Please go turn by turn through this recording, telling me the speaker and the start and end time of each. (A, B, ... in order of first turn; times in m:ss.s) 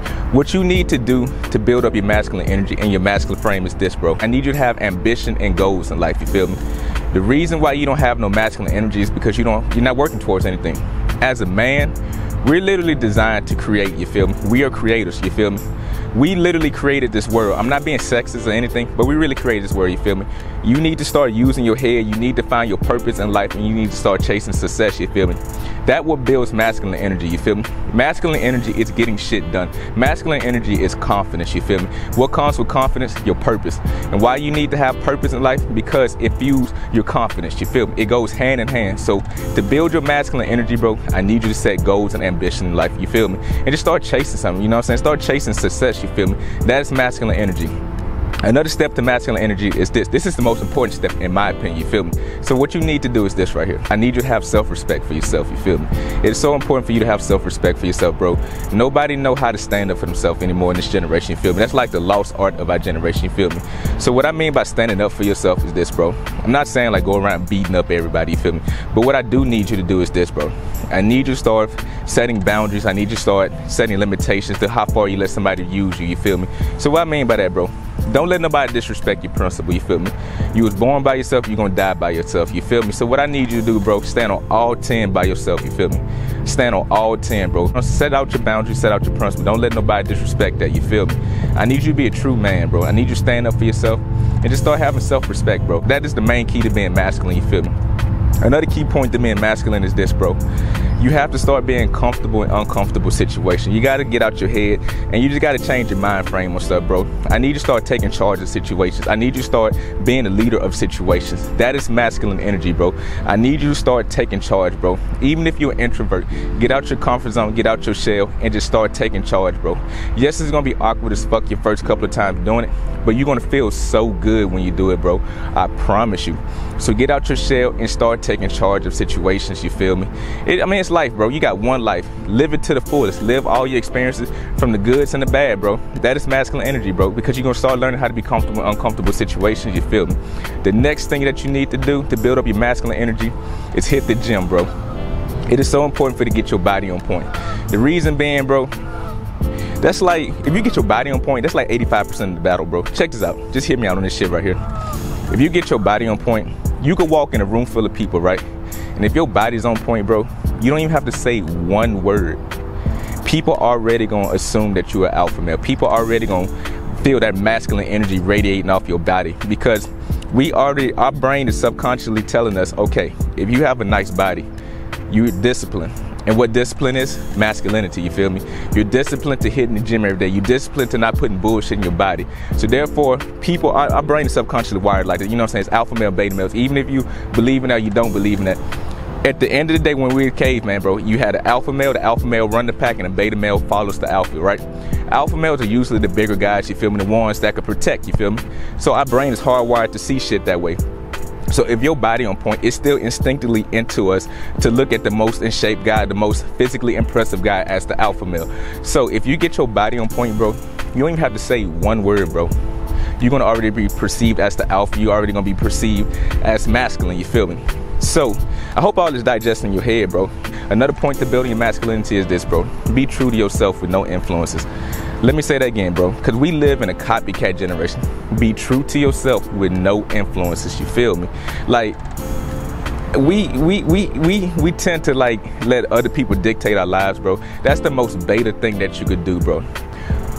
0:00.3-0:47.8 A
0:48.4-1:37.8 A
1:38.4-1:40.4 A
1:41.0-2:24.7 A
2:25.4-2:28.7 A
2:29.8-2:34.6 A
2:35.3-2:38.4 A
2:38.9-2:42.4 A
2:43.2-2:54.5 A
2:55.1-3:08.6 A
3:09.2-3:20.8 A
3:21.5-3:32.5 A
3:33.2-3:44.7 A
3:45.2-3:52.0 A
3:53.1-3:59.7 A